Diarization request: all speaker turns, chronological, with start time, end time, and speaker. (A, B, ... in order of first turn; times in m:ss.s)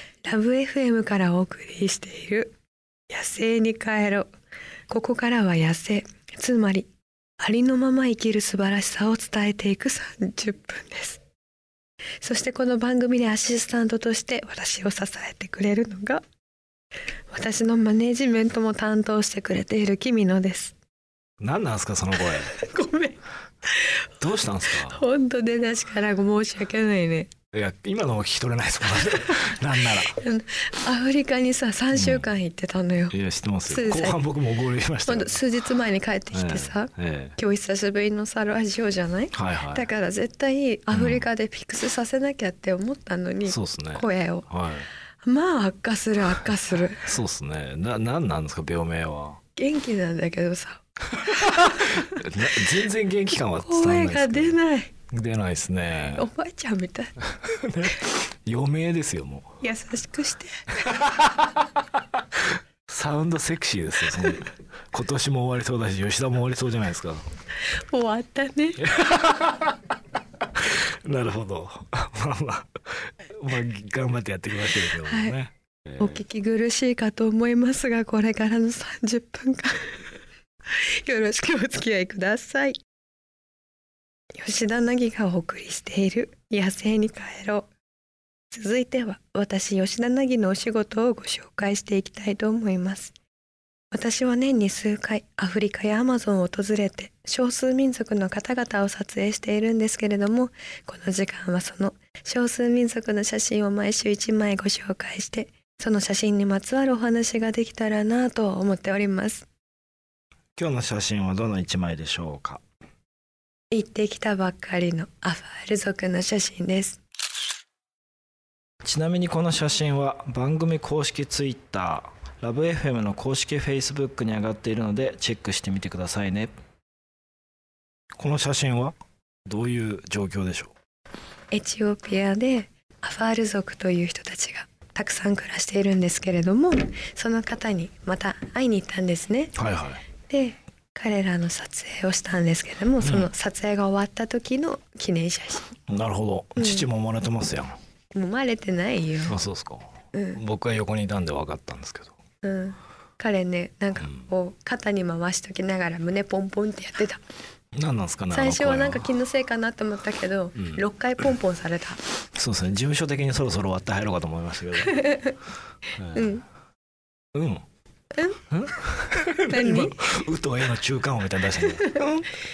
0:00.2-0:02.6 A
0:03.1-0:04.3 A
0:04.9-0:11.2 A
0:12.2-0:16.2 A
0:17.3-0:20.7 A
0:21.4-0:22.6 B
0:22.5-0:24.0 A
0:24.2-0:25.1 B
0:24.8-0:27.3 A
0:27.5-0:30.2 B
0:30.0-0:33.1 A
0:31.9-0:32.3 B
0:33.1-0:35.4 B
0:33.6-0:34.2 A
0:35.0-0:44.5 A
0:36.3-0:37.4 B
0:39.3-0:39.9 B
0:40.9-0:41.3 B
0:43.4-0:44.9 B
0:45.2-0:47.1 A
0:47.0-0:49.4 B
0:49.6-0:52.2 A
0:51.2-0:54.6 B
0:53.5-0:54.9 A
0:55.1-0:56.3 B
0:56.2-0:57.1 A
0:57.4-0:59.6 B
0:59.6-1:00.6 A
1:00.8-1:01.6 B
1:02.4-1:07.2 B
1:07.6-1:08.9 A
1:08.8-1:09.8 B
1:10.5-1:16.2 B
1:15.0-1:15.4 A
1:16.0-1:20.0 A
1:20.7-1:22.8 A
1:24.3-1:27.7 A
1:28.5-1:33.1 A
1:33.9-1:49.4 A
1:50.6-1:52.6 B
1:53.7-1:57.0 A
1:58.8-2:06.5 B
2:08.2-2:08.9 B
2:09.4-2:10.7 B
2:11.5-2:19.5 A
2:19.5-2:20.0 B
2:20.3-2:25.8 A
2:23.0-2:23.3 B
2:25.9-2:27.8 B
2:26.6-2:26.9 A
2:28.1-2:29.4 A
2:29.2-2:32.1 B
2:30.1-2:30.4 A
2:32.4-2:37.2 A
2:34.0-2:34.3 B
2:37.8-2:39.1 B
2:38.3-2:42.0 A
2:40.6-2:40.8 B
2:42.3-2:45.1 B
2:44.9-2:45.4 A
2:46.0-2:46.4 B
2:46.1-2:46.4 A
2:47.3-2:47.6 B
2:48.1-2:48.4 A
2:48.5-2:52.3 B
2:49.5-2:50.0 A
2:51.7-2:52.2 A